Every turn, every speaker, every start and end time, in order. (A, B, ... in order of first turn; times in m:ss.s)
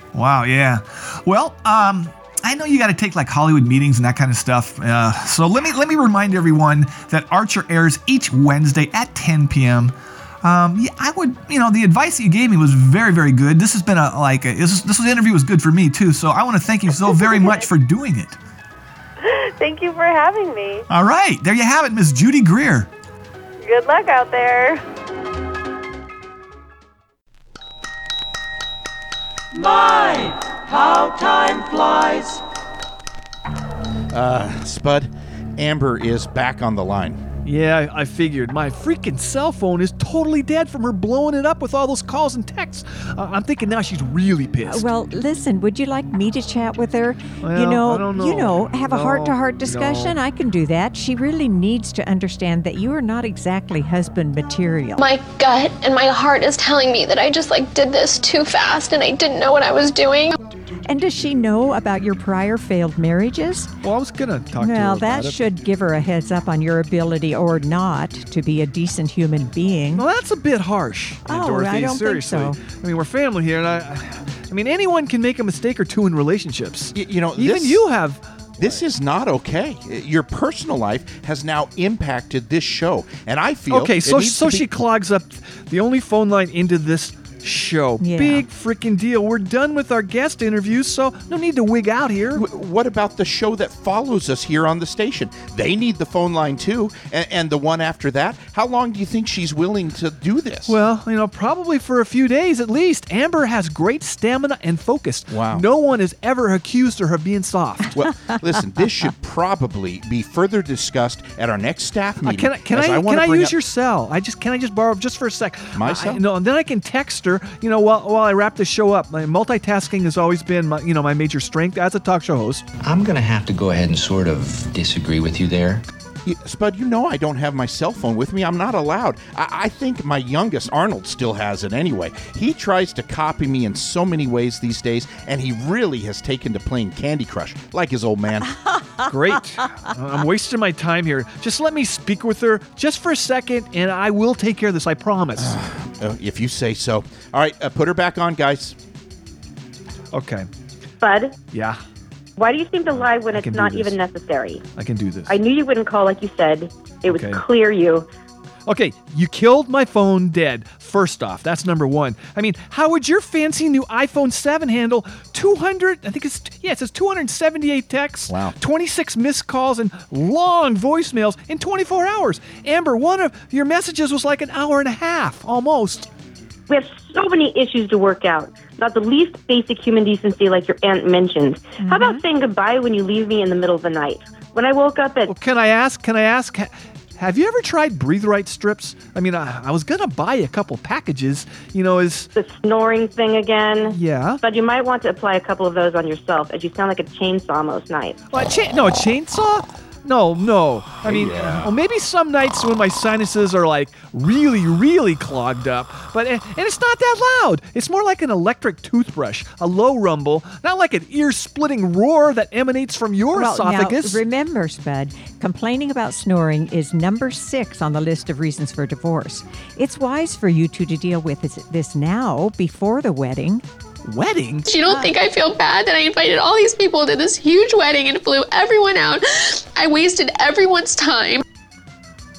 0:00.1-0:18.4 A
0:16.9-0:17.7 B
0:19.2-0:20.9 B
0:20.9-0:22.9 A
0:23.6-0:24.8 B
0:29.6-0:30.3 C
0:31.1-0:32.4 C
0:34.1-0:37.2 D
0:37.4-0:44.9 E
0:44.7-0:55.0 F
0:47.4-0:50.2 E
0:55.0-1:00.4 G
1:00.8-1:03.7 F
1:03.8-1:05.5 E
1:04.6-1:10.1 F
1:09.9-1:18.8 E
1:11.3-1:12.6 F
1:17.0-1:17.8 D
1:18.6-1:24.7 D
1:23.7-1:32.4 E
1:28.0-1:28.4 F
1:32.3-1:40.8 D
1:40.7-1:47.9 E
1:45.3-1:45.6 D
1:47.9-1:53.6 D
1:52.2-2:02.7 E
1:55.7-1:56.2 D
2:02.8-2:05.8 H
2:06.2-2:18.6 D
2:19.1-2:25.6 E
2:25.4-2:28.8 D
2:30.1-2:30.5 E
2:31.0-2:31.4 I
2:31.5-2:31.8 E
2:32.4-2:34.6 I
2:33.3-2:34.0 E
2:34.8-2:35.4 E
2:35.3-2:38.1 I
2:37.1-2:37.4 E
2:38.7-2:56.1 E
2:48.3-2:48.6 D
2:56.7-3:05.3 I
3:01.8-3:02.2 F
3:05.3-3:12.3 E
3:12.4-3:18.2 I
3:13.9-3:14.4 E
3:18.3-3:34.2 E
3:33.3-3:43.6 F
3:44.0-3:45.1 E
3:44.7-3:51.4 G